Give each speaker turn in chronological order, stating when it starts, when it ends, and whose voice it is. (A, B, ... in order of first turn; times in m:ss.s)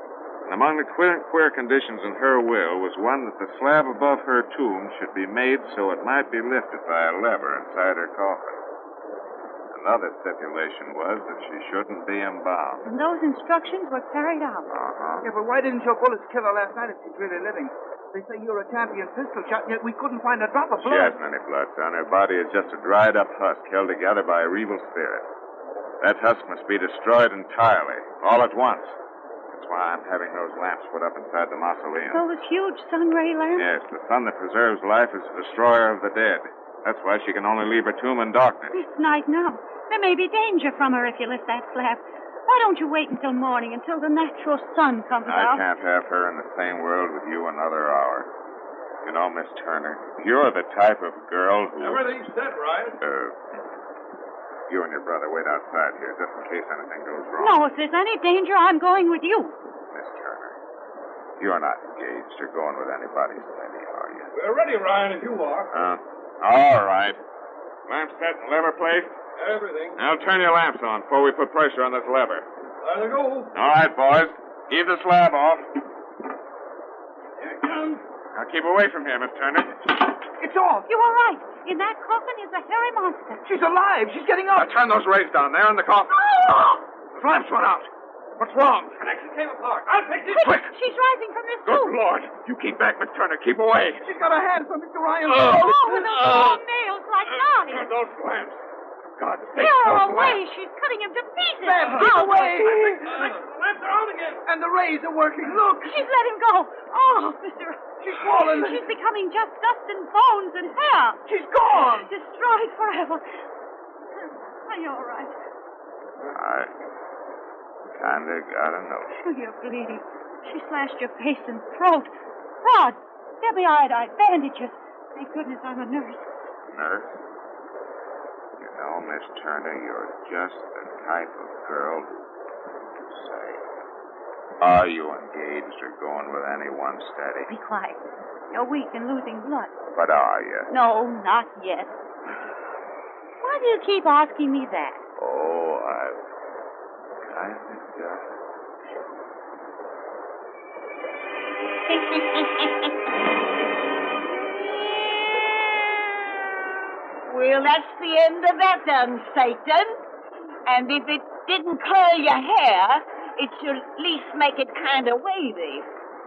0:00.4-0:08.6 A
0:09.7-0:12.8 A
0:12.8-0:14.7 B
0:14.7-0:15.3 A
0:15.2-0:21.2 C
0:20.8-0:25.3 A
0:26.0-0:29.0 A
0:29.5-0:32.2 A
0:32.1-0:33.7 B
0:33.6-0:38.8 A
0:38.7-0:45.6 B
0:45.3-0:48.3 A
0:49.0-0:52.1 A
0:51.8-0:53.0 D
0:53.0-0:53.4 A
0:54.7-0:57.6 A
0:57.4-0:59.6 B
0:59.9-1:00.6 A
1:01.4-1:04.3 A
1:04.3-1:05.7 D
1:05.7-1:07.2 A
1:07.9-1:09.1 A
1:09.4-1:10.0 D
1:10.0-1:12.4 A
1:12.8-1:13.5 D
1:13.5-1:15.7 A
1:17.4-1:18.0 D
1:18.3-1:19.9 A
1:20.4-1:20.9 C
1:20.9-1:23.4 B
1:23.4-1:24.7 C
1:24.5-1:30.7 A
1:26.2-1:26.6 C
1:29.1-1:30.3 D
1:30.3-1:32.0 B
1:31.7-1:34.0 A
1:34.0-1:35.8 C
1:35.3-1:37.8 B
1:36.0-1:36.4 D
1:36.3-1:36.6 A
1:37.7-1:38.6 A
1:39.2-1:40.4 A
1:39.5-1:42.7 B
1:41.6-1:43.3 C
1:42.6-1:44.4 D
1:44.5-1:46.0 C
1:45.8-1:51.2 B
1:48.0-1:48.8 C
1:51.3-1:52.1 C
1:51.9-1:53.2 B
1:54.2-1:55.3 B
1:56.3-1:56.7 A
1:57.9-1:59.2 A
1:59.2-2:02.1 B
2:02.6-2:06.3 B
2:06.7-2:07.2 A
2:08.6-2:12.2 A
2:13.0-2:13.6 A
2:14.6-2:17.5 A
2:17.5-2:19.7 B
2:19.9-2:20.7 A
2:20.7-2:22.0 B
2:23.4-2:25.0 B
2:25.2-2:26.2 A
2:27.2-2:28.3 A
2:32.2-2:32.7 E
2:37.3-2:40.0 E
2:40.7-2:45.9 E